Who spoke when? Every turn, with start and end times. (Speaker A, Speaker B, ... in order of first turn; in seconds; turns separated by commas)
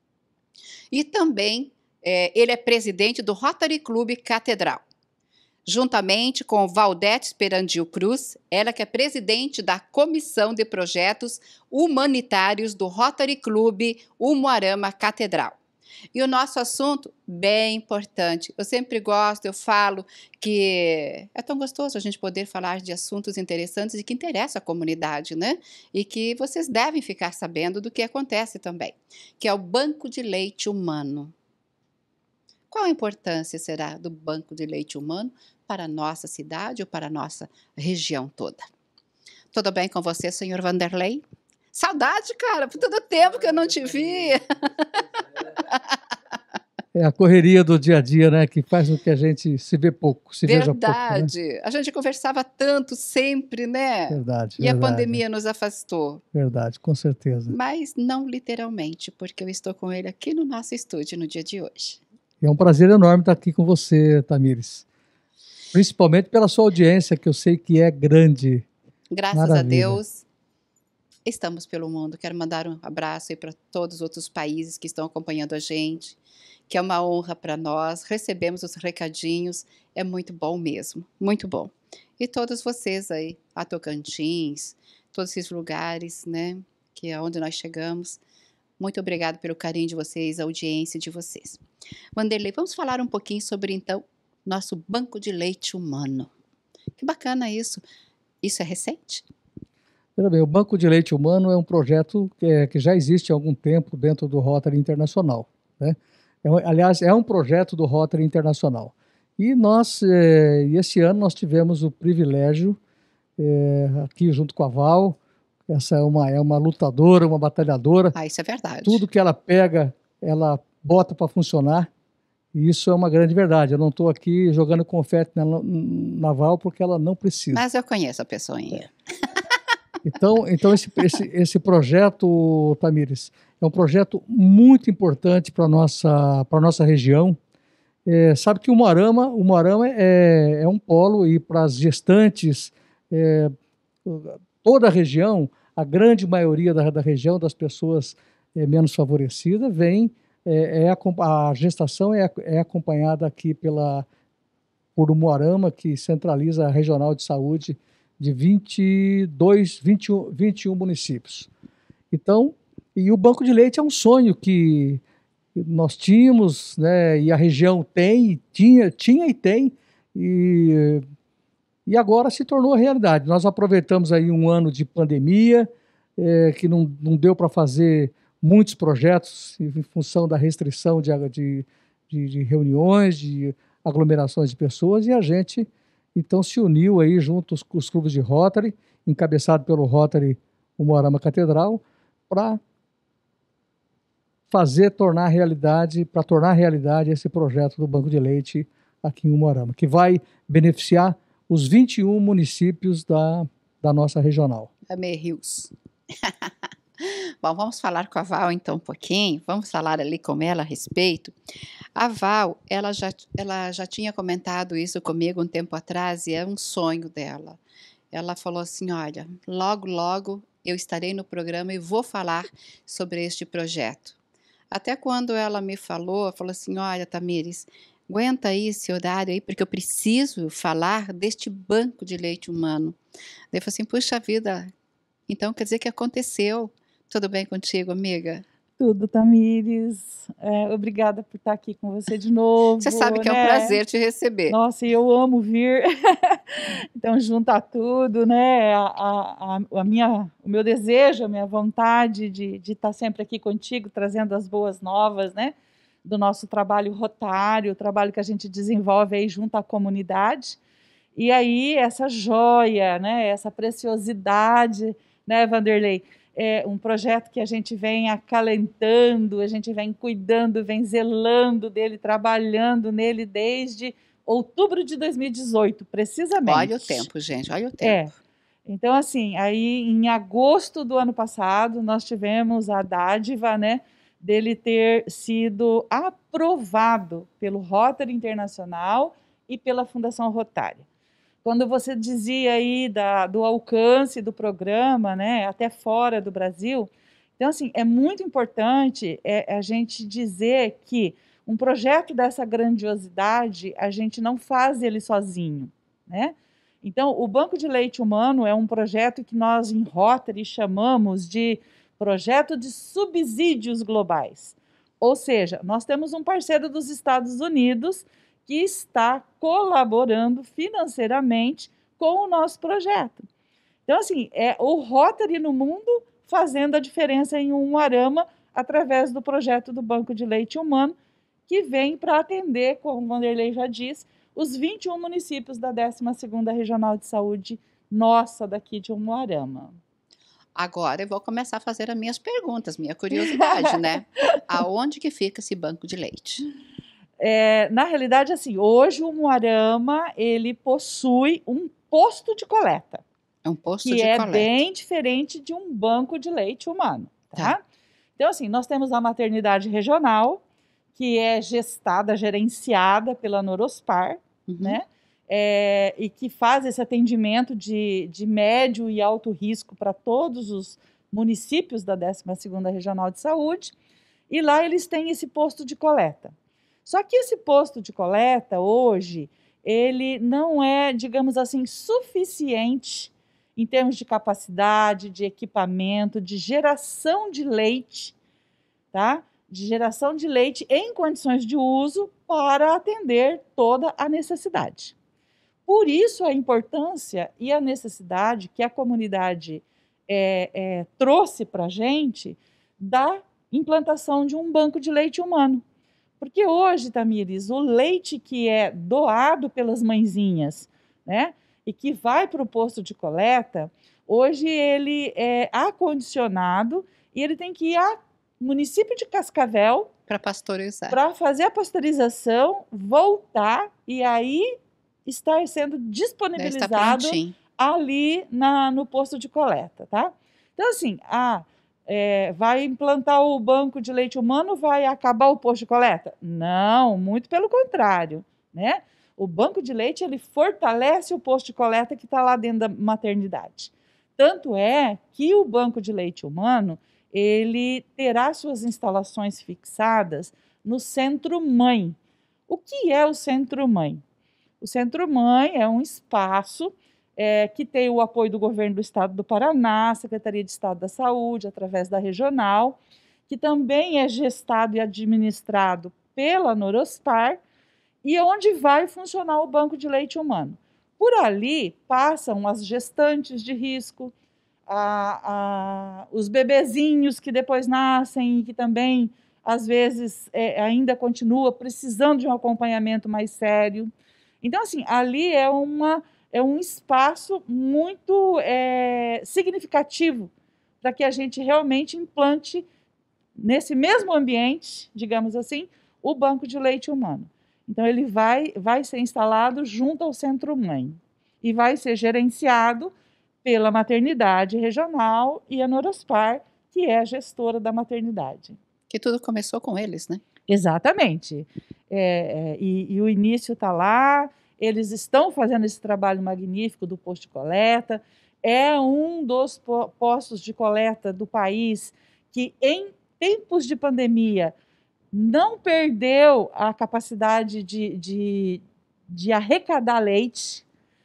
Speaker A: 0.9-4.8, Speaker A: 5.7-15.6, Speaker A: 16.1-31.3, Speaker A: 32.7-38.6, Speaker A: 39.5-45.9, Speaker B: 46.9-51.3, Speaker A: 50.4-56.2, Speaker B: 54.1-55.2, Speaker B: 56.3-57.5, Speaker A: 57.5-62.0, Speaker B: 62.4-64.8, Speaker B: 65.7-68.6, Speaker A: 69.1-70.2, Speaker B: 69.3-70.0, Speaker A: 71.2-76.2, Speaker A: 76.7-88.2, Speaker A: 88.8-91.6, Speaker A: 92.1-96.3, Speaker A: 97.0-97.8, Speaker A: 98.4-99.2, Speaker B: 100.2-112.8, Speaker B: 113.4-115.2, Speaker B: 115.7-118.1, Speaker A: 118.1-119.0, Speaker B: 118.8-121.9, Speaker B: 122.5-127.6, Speaker A: 127.5-128.9, Speaker B: 130.1-137.4, Speaker B: 138.1-143.5, Speaker B: 144.0-154.1, Speaker B: 154.9-161.5, Speaker B: 162.1-165.0, Speaker B: 165.5-171.0, Speaker B: 171.8-192.6, Speaker B: 194.5-204.7, Speaker A: 204.9-211.3, Speaker A: 211.9-217.6, Speaker A: 218.1-224.2, Speaker A: 224.7-233.0, Speaker A: 233.5-234.7, Speaker A: 235.3-238.4, Speaker C: 238.8-243.8, Speaker A: 242.8-244.6, Speaker C: 244.5-260.6, Speaker C: 261.1-277.1, Speaker A: 276.4-278.1, Speaker C: 277.8-278.1, Speaker C: 278.6-290.8, Speaker C: 291.4-323.2, Speaker C: 323.9-330.9, Speaker C: 331.5-339.7, Speaker A: 340.6-346.4, Speaker C: 343.1-343.9, Speaker C: 347.2-353.0, Speaker A: 353.4-354.6, Speaker C: 353.8-357.6, Speaker C: 358.2-360.4, Speaker C: 360.9-373.7, Speaker A: 364.5-364.8, Speaker C: 374.3-376.3, Speaker C: 376.9-388.1, Speaker C: 388.9-394.9, Speaker C: 395.7-405.6, Speaker C: 406.2-419.9, Speaker A: 420.1-421.0, Speaker C: 420.9-424.5, Speaker C: 425.1-452.0, Speaker A: 426.4-427.3, Speaker C: 452.5-454.0, Speaker C: 454.6-462.8, Speaker C: 463.3-467.4, Speaker C: 468.0-474.1, Speaker C: 474.7-483.9, Speaker C: 484.4-490.3, Speaker C: 490.8-492.6, Speaker C: 493.4-502.9, Speaker C: 503.4-508.6, Speaker A: 508.9-510.2, Speaker C: 510.5-524.5, Speaker C: 525.1-530.6